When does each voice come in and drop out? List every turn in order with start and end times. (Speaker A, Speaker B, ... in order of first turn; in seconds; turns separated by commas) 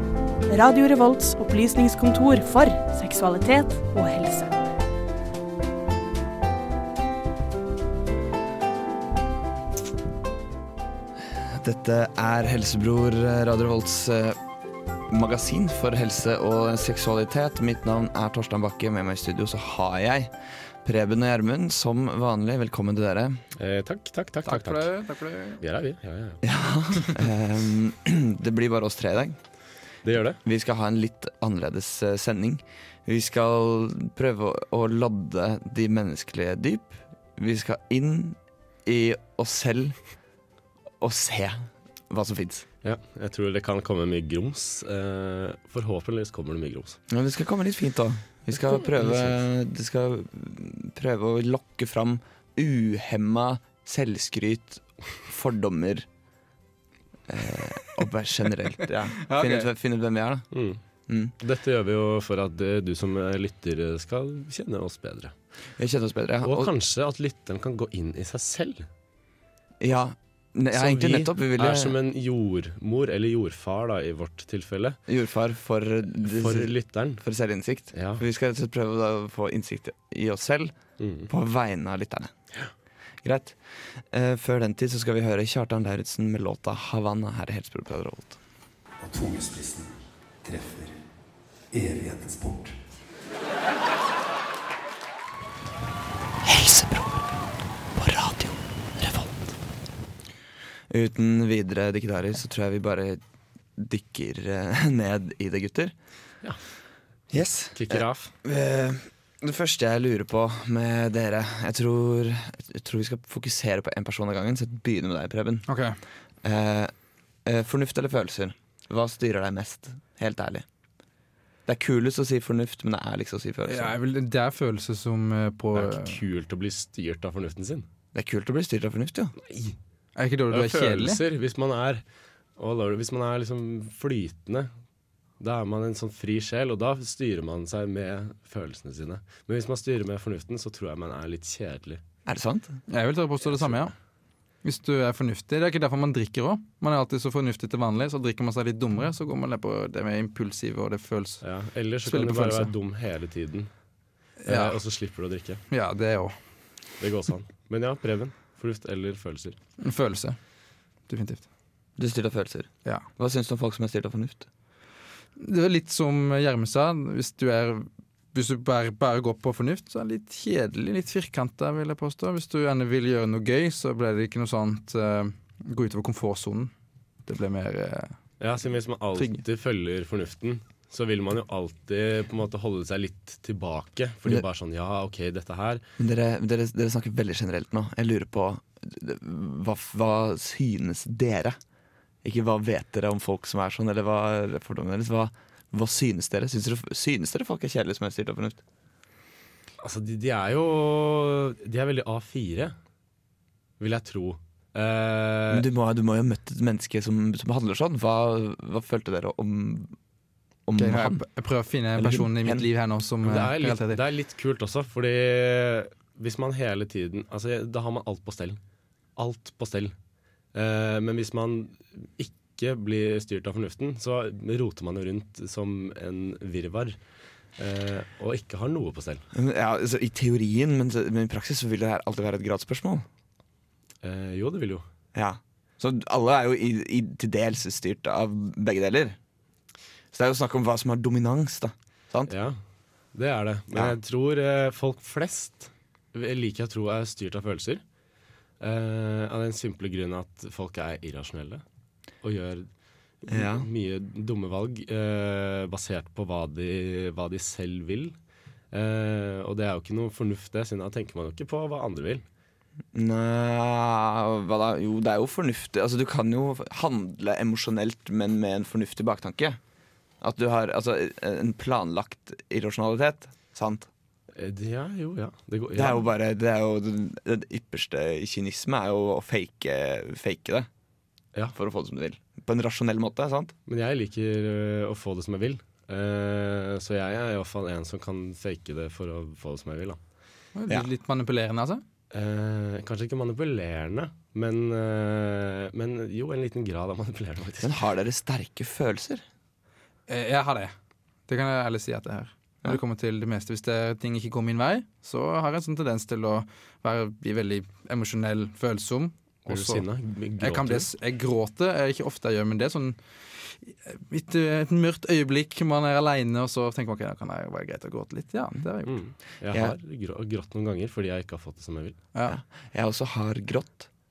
Speaker A: 0.5-4.7, Speaker B: 11.3-14.4, Speaker B: 15.1-23.4, Speaker C: 23.6-24.9, Speaker D: 24.4-25.6, Speaker C: 25.6-26.4, Speaker B: 26.4-29.4, Speaker C: 30.0-30.4, Speaker B: 30.4-40.0, Speaker B: 41.0-42.6, Speaker C: 42.8-47.0, Speaker B: 47.1-56.1, Speaker C: 49.0-49.4, Speaker B: 57.3-60.5, Speaker D: 59.2-59.7, Speaker C: 60.5-60.8, Speaker B: 61.1-61.3, Speaker C: 61.4-65.3, Speaker B: 65.8-66.7, Speaker C: 66.4-68.9, Speaker B: 69.8-72.0, Speaker C: 70.7-75.0, Speaker B: 75.1-80.7, Speaker C: 76.2-77.2, Speaker C: 77.9-78.2, Speaker C: 81.0-81.3, Speaker B: 81.3-82.3, Speaker B: 83.2-83.6, Speaker B: 84.1-88.4, Speaker E: 89.0-91.0, Speaker E: 91.7-92.8, Speaker B: 96.5-97.2, Speaker B: 98.0-99.3, Speaker B: 100.9-103.2, Speaker B: 103.8-105.9, Speaker B: 107.3-115.7, Speaker C: 107.7-108.3, Speaker D: 115.7-116.0, Speaker B: 116.4-116.9, Speaker B: 117.5-120.7, Speaker B: 121.7-123.9, Speaker D: 123.7-126.2, Speaker C: 125.8-127.9, Speaker B: 128.1-129.3, Speaker C: 129.5-129.8, Speaker D: 130.2-131.2, Speaker C: 130.5-132.0, Speaker C: 132.6-134.7, Speaker C: 135.4-142.0, Speaker B: 142.2-142.8, Speaker D: 142.9-143.9, Speaker C: 143.5-143.9, Speaker D: 144.6-151.4, Speaker C: 151.4-153.7, Speaker D: 152.0-152.7, Speaker D: 154.5-154.8, Speaker C: 154.5-155.6, Speaker D: 155.7-156.4, Speaker C: 157.0-159.6, Speaker D: 159.8-160.4, Speaker D: 161.1-161.4, Speaker B: 162.0-164.5, Speaker D: 165.4-176.7, Speaker D: 177.3-178.2, Speaker C: 178.4-185.8, Speaker D: 179.2-179.4, Speaker B: 186.0-191.6, Speaker B: 192.2-198.6, Speaker C: 199.8-202.7, Speaker C: 203.8-205.7, Speaker B: 205.5-209.9, Speaker B: 210.7-211.2, Speaker D: 210.8-214.0, Speaker B: 212.0-212.7, Speaker C: 213.2-218.6, Speaker C: 219.2-219.9, Speaker C: 220.5-227.0, Speaker C: 227.6-229.2, Speaker B: 229.3-233.1, Speaker C: 234.0-234.8, Speaker B: 235.1-239.2, Speaker B: 240.1-242.3, Speaker C: 242.3-242.6, Speaker C: 243.1-247.8, Speaker C: 248.6-251.6, Speaker C: 252.2-252.7, Speaker C: 253.2-258.1, Speaker B: 253.3-253.7, Speaker C: 258.7-262.2, Speaker B: 262.9-269.6, Speaker B: 270.2-273.9, Speaker C: 274.4-276.0, Speaker B: 275.7-280.7, Speaker B: 281.5-283.6, Speaker C: 283.7-290.0, Speaker D: 290.6-291.8, Speaker C: 292.1-297.8, Speaker B: 297.6-299.2, Speaker D: 300.1-300.7, Speaker D: 301.3-309.9, Speaker C: 309.5-310.9, Speaker D: 310.4-313.0, Speaker D: 313.6-319.0, Speaker C: 318.9-322.0, Speaker B: 322.2-323.9